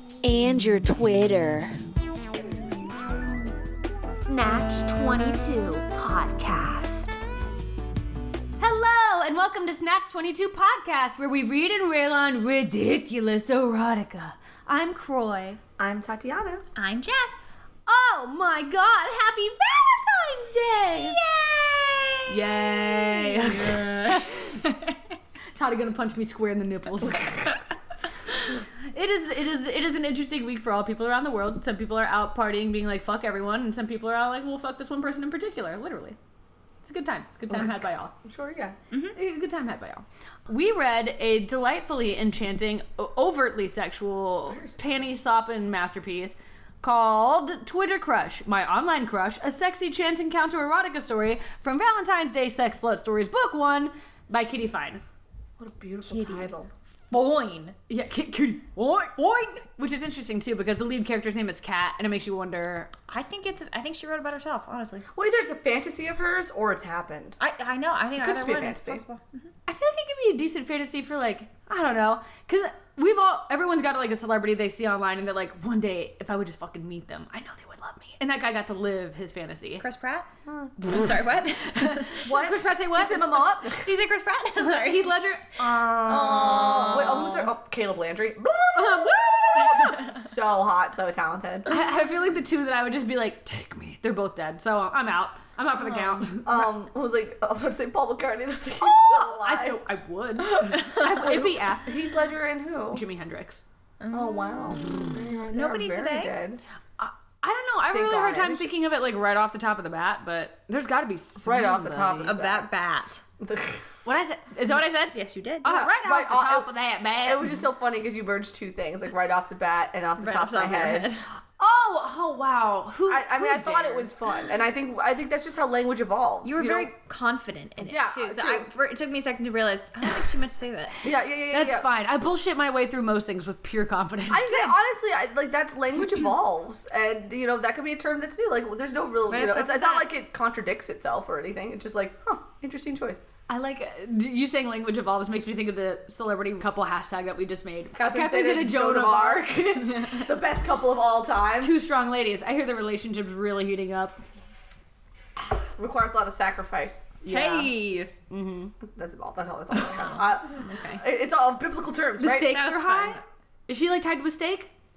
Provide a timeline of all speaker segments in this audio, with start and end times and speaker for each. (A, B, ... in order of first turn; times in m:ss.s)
0:00.2-0:01.8 A
0:04.1-0:07.2 A
0:08.6-0:15.6 A
0:15.8-0:16.6 B
0:16.8-0:17.5 C
0:17.8-0:21.2 A
0:20.9-0:25.1 C
0:22.3-0:24.6 A
0:25.6-0:27.6 A
0:28.4-0:36.2 A
0:36.8-0:38.1 A
0:37.5-0:38.8 B
0:39.1-0:55.0 A
0:44.4-0:44.8 B
0:55.6-0:56.7 B
0:56.1-0:56.5 C
0:57.1-0:57.7 C
0:57.3-1:02.9 A
1:03.1-1:05.1 C
1:05.1-1:07.4 B
1:07.4-1:09.5 C
1:08.2-1:09.0 B
1:09.7-1:19.8 A
1:19.8-1:20.3 C
1:20.5-1:20.7 B
1:20.8-1:22.4 C
1:21.6-1:23.8 A
1:22.3-1:23.8 B
1:23.8-1:25.2 C
1:24.5-1:27.5 A
1:26.0-1:31.7 B
1:28.7-1:30.0 A
1:29.6-1:30.1 C
1:31.7-1:36.6 A
1:35.8-1:36.2 C
1:36.4-1:39.8 B
1:39.0-1:42.1 A
1:40.6-1:43.0 B
1:42.9-1:43.6 A
1:44.0-1:46.3 C
1:44.1-1:46.6 B
1:47.0-1:52.3 A
1:47.9-1:48.7 B
1:51.4-1:52.7 B
1:52.2-1:53.2 C
1:53.4-1:53.9 B
1:54.0-1:57.5 A
1:55.1-1:55.7 C
1:55.7-1:56.7 B
1:57.2-2:01.1 B
2:00.2-2:01.2 C
2:01.6-2:04.1 A
2:03.1-2:06.9 B
2:06.4-2:10.9 C
2:07.8-2:08.6 A
2:11.0-2:11.9 B
2:11.5-2:14.8 A
2:14.3-2:23.2 B
2:19.3-2:20.1 C
2:23.5-2:30.3 A
2:27.9-2:31.7 B
2:31.6-2:34.2 A
2:35.6-2:37.7 B
2:37.2-2:37.7 A
2:37.3-2:38.1 C
2:38.3-2:38.7 A
2:38.8-2:42.6 B
2:39.7-2:41.0 C
2:42.2-2:44.7 A
2:42.4-2:43.2 C